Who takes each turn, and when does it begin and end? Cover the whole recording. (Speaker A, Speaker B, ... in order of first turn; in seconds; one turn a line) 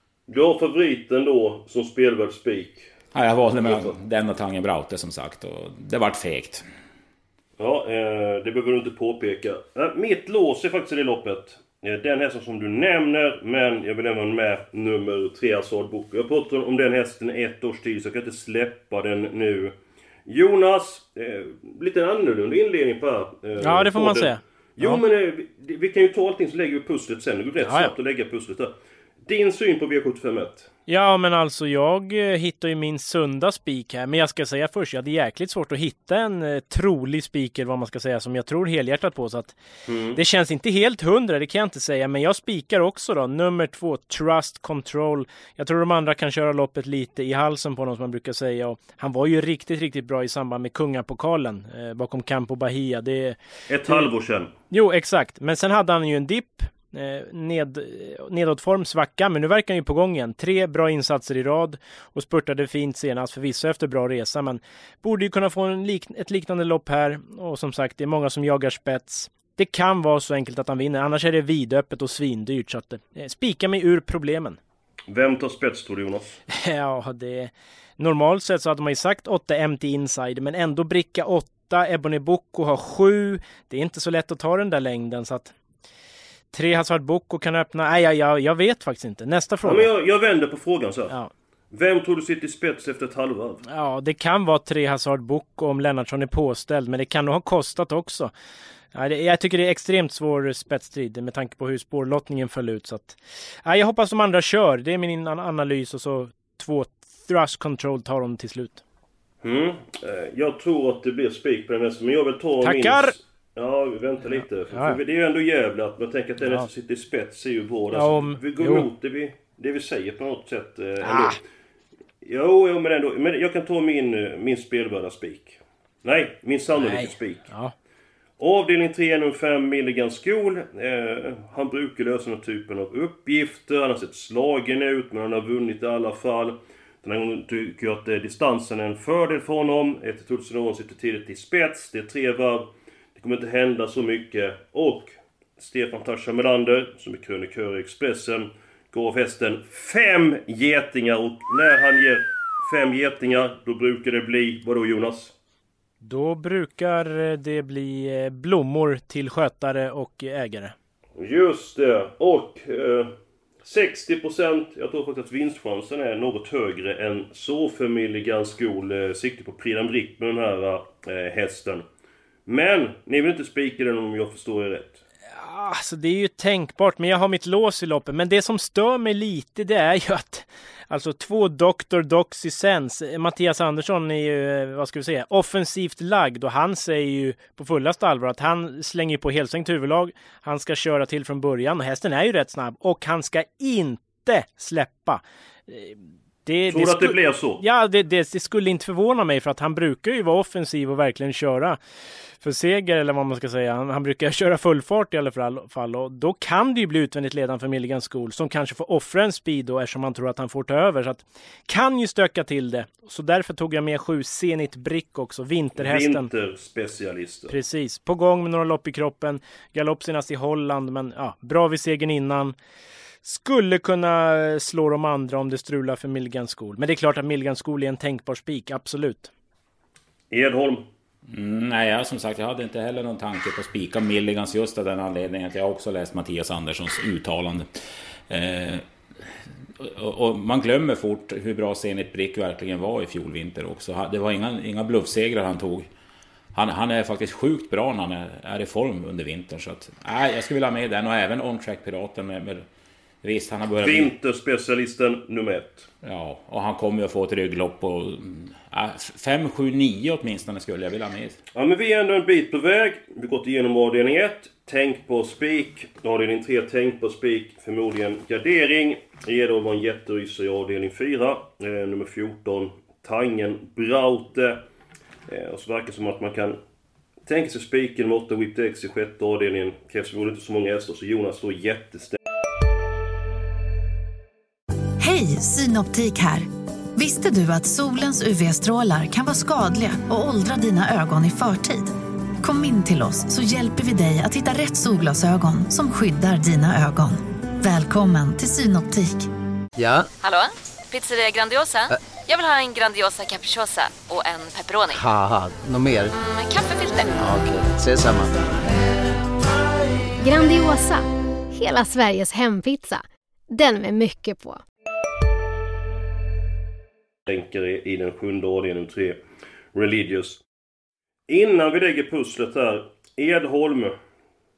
Speaker A: 0.3-2.9
Speaker B: 3.1-6.6
Speaker A: 3.6-3.9
Speaker A: 7.6-19.7
Speaker A: 20.2-28.7
Speaker C: 23.6-25.0
Speaker C: 27.6-27.9
Speaker A: 29.2-30.7
Speaker C: 30.9-39.5
Speaker A: 39.9-40.2
Speaker C: 40.1-54.1
Speaker A: 53.7-54.5
Speaker C: 54.7-74.6
Speaker A: 75.1-76.4
Speaker C: 76.5-85.5
Speaker C: 86.5-89.9
Speaker A: 89.6-91.1
Speaker A: 91.7-93.6
Speaker C: 93.7-98.3
Speaker C: 98.9-108.8
Speaker A: 109.4-121.4
Speaker C: 112.6-113.1
Speaker C: 114.4-115.0
Speaker C: 116.4-116.7
Speaker C: 117.9-118.9
Speaker C: 121.0-121.3
Speaker A: 122.2-127.4
Speaker C: 126.8-127.7
Speaker A: 128.4-155.3
Speaker C: 156.0-160.7
Speaker A: 161.2-163.1
Speaker A: 163.6-171.8
Speaker A: 172.4-175.0
Speaker C: 175.3-201.8
Speaker A: 196.7-197.6
Speaker C: 202.4-216.3
Speaker A: 215.8-217.5
Speaker C: 217.5-222.6
Speaker C: 223.2-229.3
Speaker A: 230.3-230.8
Speaker B: 231.3-237.7
Speaker B: 238.3-238.8
Speaker B: 239.8-245.9
Speaker B: 246.5-252.7
Speaker B: 253.2-254.1
Speaker A: 253.8-255.9
Speaker B: 256.0-261.4
Speaker A: 261.5-274.6
Speaker A: 275.3-276.6
Speaker A: 277.2-282.2
Speaker D: 285.0-299.3
Speaker E: 299.8-300.1
Speaker F: 300.2-305.0
Speaker E: 304.9-306.1
Speaker F: 306.1-307.2
Speaker E: 307.2-308.3
Speaker G: 310.2-314.6
Speaker A: 317.3-319.2
Speaker A: 319.7-320.4
Speaker A: 321.3-323.9